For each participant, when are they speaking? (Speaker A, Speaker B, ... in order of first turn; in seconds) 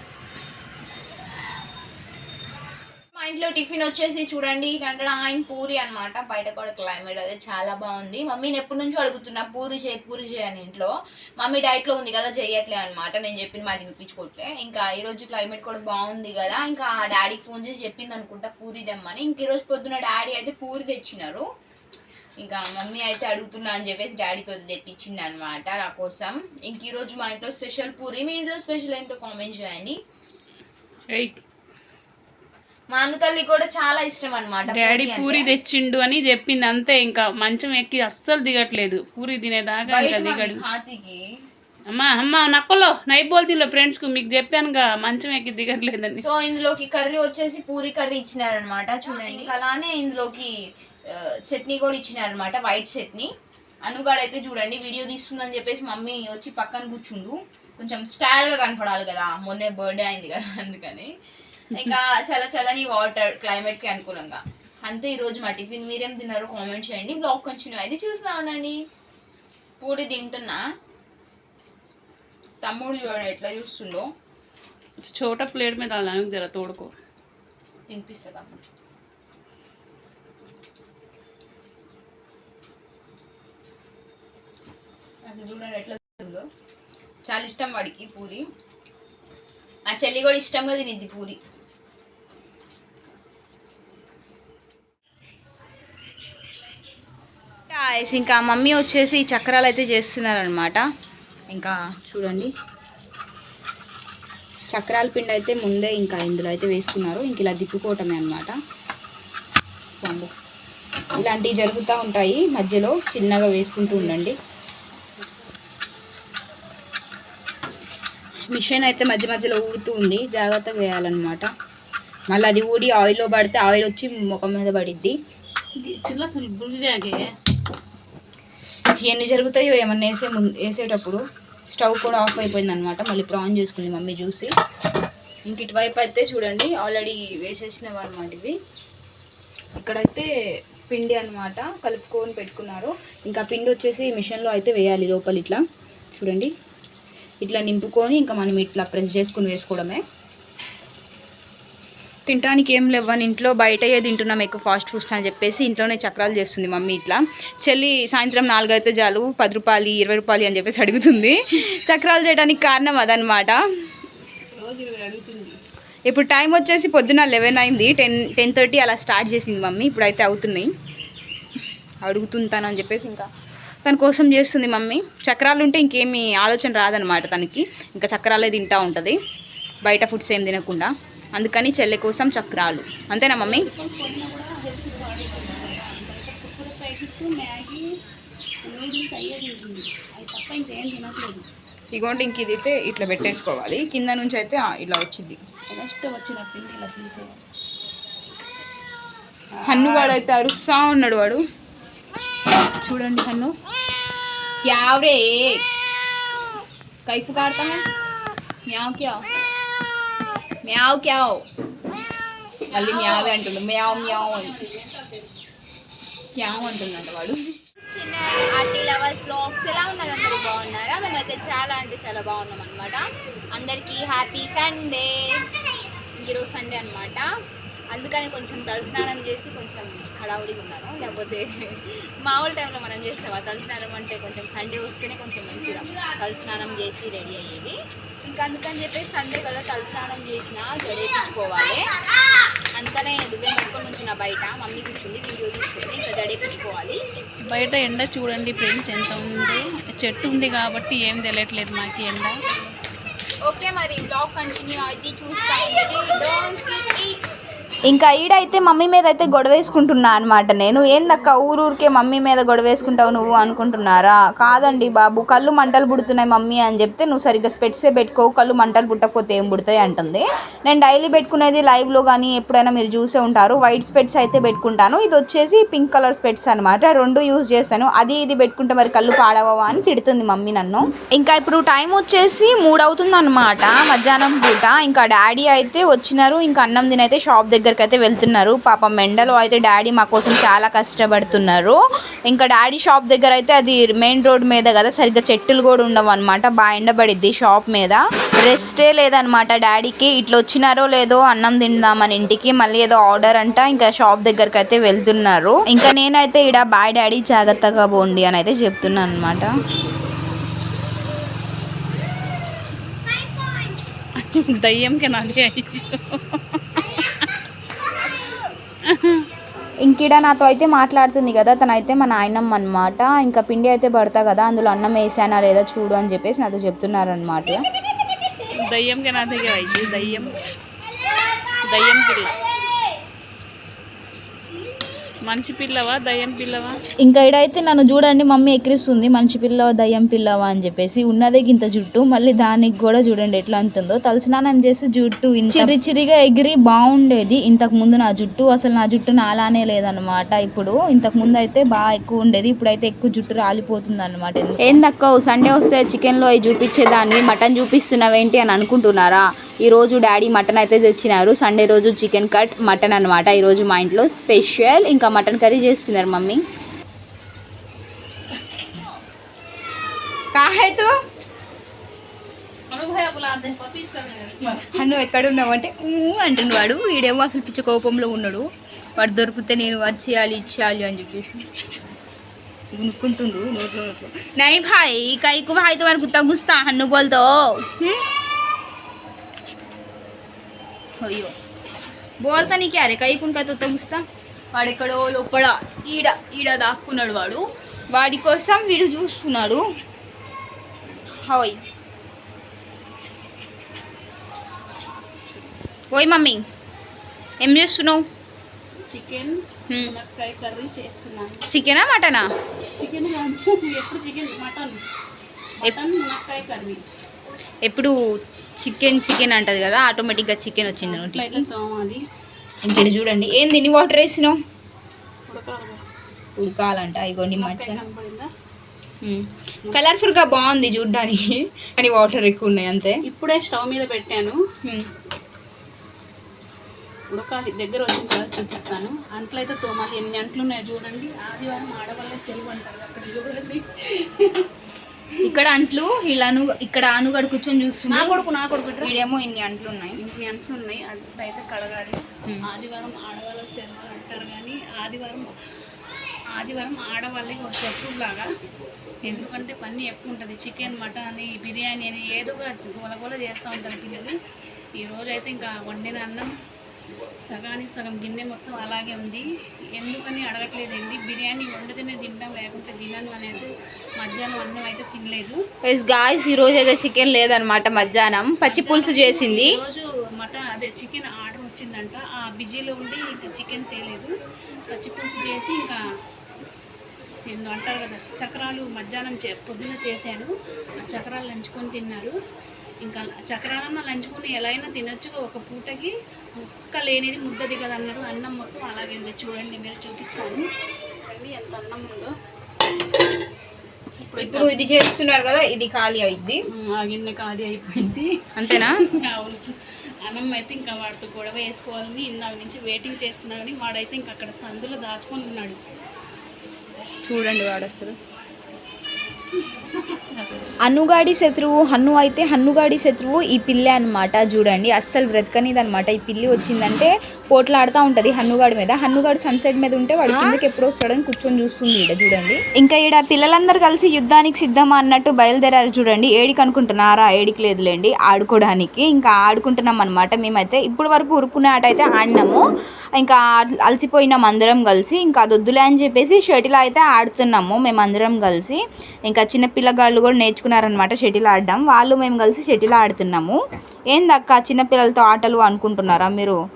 Speaker A: 3.1-21.4, 22.4-30.0, 32.9-35.5, 39.9-41.2, 46.2-50.5, 51.1-53.3, 53.8-61.1, 61.7-68.8, 69.8-70.6, 72.6-74.1, 77.9-78.6, 85.2-86.4, 87.2-88.5, 89.9-91.4, 97.7-100.8, 101.5-102.5, 104.7-108.5, 110.0-110.3, 111.2-114.4, 118.5-121.5, 122.3-125.1, 129.0-134.5, 135.4-138.5, 139.8-140.3, 140.9-145.6, 146.1-146.5, 147.4-150.0, 152.3-163.6, 166.1-170.7, 172.0-173.3, 173.8-179.2, 179.8-183.7, 191.9-195.4, 199.7-201.4, 202.8-203.5, 204.6-205.6, 207.1-207.8, 208.7-209.2, 210.6-211.4, 212.7-214.6, 216.3-225.4, 226.2-227.2, 227.9-241.8, 242.7-247.0, 253.4-257.4, 257.9-309.6, 319.8-327.6, 329.9-330.2, 337.0-366.4, 370.3-370.9, 374.7-381.4, 382.7-388.0, 391.0-391.3, 392.2-399.6, 401.2-401.6, 405.9-406.4, 407.4-408.0, 409.7-409.9, 411.5-412.3, 417.6-417.9, 418.6-421.5, 422.6-424.4, 426.4-427.8, 429.0-433.0, 445.2-450.0, 459.0-459.3, 475.6-479.6, 504.2-506.4, 508.4-508.8, 517.1-518.0, 520.6-542.4, 543.0-553.4, 553.9-556.4
Speaker B: 31.1-31.4, 34.7-40.6, 41.9-46.2, 75.1-76.9, 113.9-114.2, 125.8-127.2, 164.5-165.6, 183.4-187.8, 188.6-191.4, 195.7-197.4, 199.5-200.2, 212.7-215.4, 247.5-252.3, 314.2-317.3, 318.9-319.2, 328.6-330.3, 331.7-332.3, 335.2-336.8, 372.7-374.8, 408.9-411.4, 412.7-414.8, 415.6-416.8, 420.8-422.0, 425.3-425.8, 427.3-428.3, 433.1-434.4, 437.1-444.5, 447.9-448.9, 450.0-455.3, 456.4-458.3, 459.0-464.1, 464.8-466.3, 467.3-469.2, 469.8-475.4, 478.4-484.1, 484.7-485.8, 487.3-492.1, 492.8-500.4, 501.0-502.1, 504.0-504.6, 506.5-515.6, 519.4-520.3